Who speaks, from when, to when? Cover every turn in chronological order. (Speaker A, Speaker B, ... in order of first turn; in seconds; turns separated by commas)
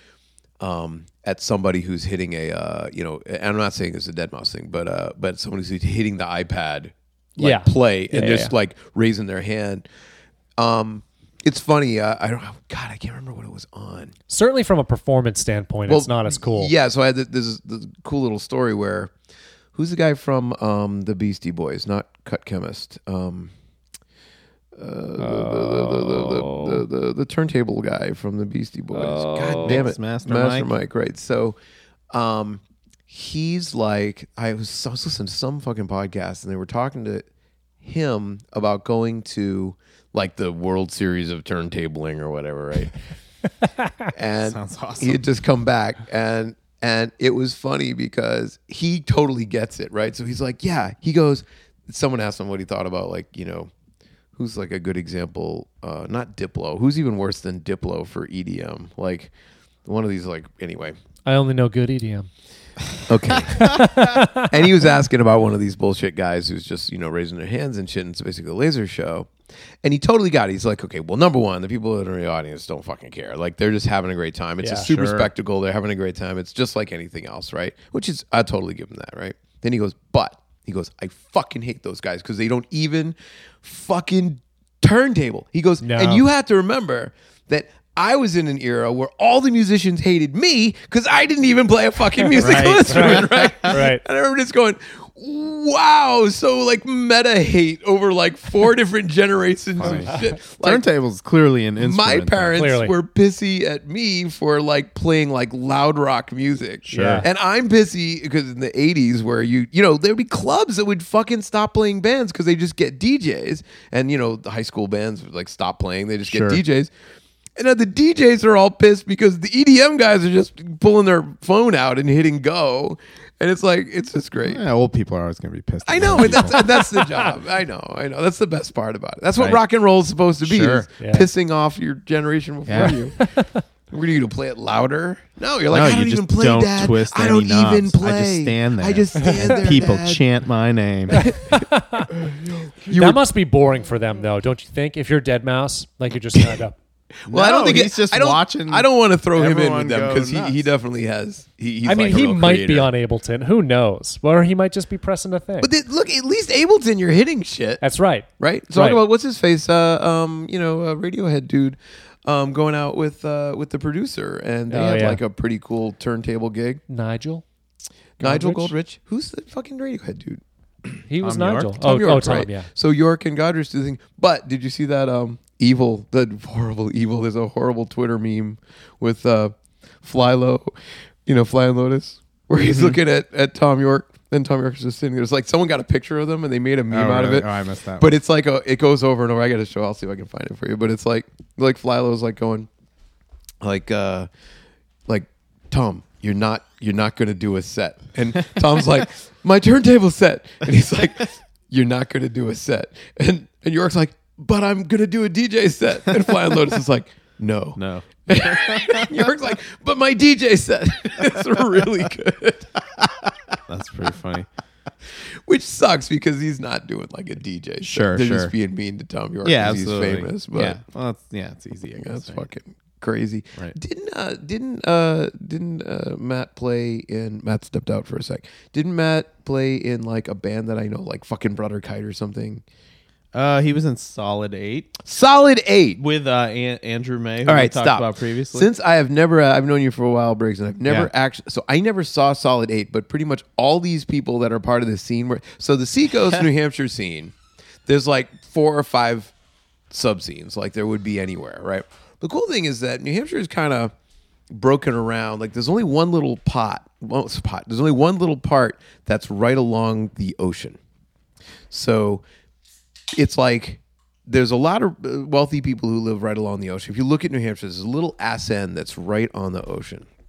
Speaker A: 0.6-9.8, Speaker B: 7.4-8.5, Speaker A: 10.6-14.1, Speaker B: 14.3-16.7, Speaker A: 15.9-19.1, Speaker A: 19.7-23.5, Speaker A: 24.7-31.6, Speaker B: 25.2-26.8, Speaker B: 28.9-29.9, Speaker C: 29.6-30.7, Speaker A: 32.1-37.2, Speaker A: 37.8-42.9, Speaker B: 43.8-44.1, Speaker A: 44.1-53.7, Speaker C: 44.4-45.2, Speaker A: 54.4-59.3, Speaker A: 59.8-61.0, Speaker B: 61.2-62.3, Speaker A: 63.1-69.3, Speaker B: 63.5-64.5, Speaker A: 69.8-100.8, Speaker B: 74.6-74.9, Speaker C: 74.9-75.3, Speaker B: 85.8-86.2, Speaker C: 92.4-93.7, Speaker B: 92.4-94.0, Speaker C: 99.8-102.5, Speaker A: 101.8-116.9, Speaker B: 102.5-102.9, Speaker C: 106.8-107.2, Speaker B: 106.9-107.3, Speaker C: 116.2-116.6, Speaker A: 117.6-124.6, Speaker C: 124.4-126.6, Speaker A: 125.8-133.2, Speaker B: 126.5-127.3, Speaker C: 130.4-130.9, Speaker B: 131.0-131.3, Speaker C: 132.7-133.0, Speaker B: 133.2-133.6, Speaker A: 133.9-140.2, Speaker C: 135.7-141.3, Speaker B: 139.2-139.6, Speaker B: 141.1-142.1, Speaker A: 141.1-143.2, Speaker B: 142.9-146.8, Speaker A: 146.3-146.6, Speaker A: 147.2-152.9, Speaker C: 147.3-150.6, Speaker B: 151.8-155.7, Speaker A: 155.6-157.8, Speaker B: 157.8-159.0, Speaker A: 158.4-166.8, Speaker B: 164.7-165.2, Speaker B: 166.9-167.4, Speaker B: 168.2-168.7, Speaker A: 168.2-171.1, Speaker B: 171.1-172.7, Speaker C: 171.2-171.8, Speaker A: 171.8-180.7, Speaker A: 181.2-192.7, Speaker C: 182.6-183.0, Speaker C: 186.9-188.1, Speaker A: 193.6-194.3, Speaker A: 195.1-212.7, Speaker C: 207.8-209.1, Speaker C: 213.7-214.5, Speaker A: 215.2-220.8, Speaker C: 217.8-218.5, Speaker C: 219.4-222.4, Speaker A: 222.0-232.6, Speaker C: 233.3-235.0, Speaker A: 235.0-236.0, Speaker C: 236.0-238.7, Speaker A: 237.4-247.3, Speaker A: 247.8-249.3, Speaker A: 249.9-253.9, Speaker A: 254.5-260.8, Speaker A: 261.7-262.2, Speaker A: 263.1-270.1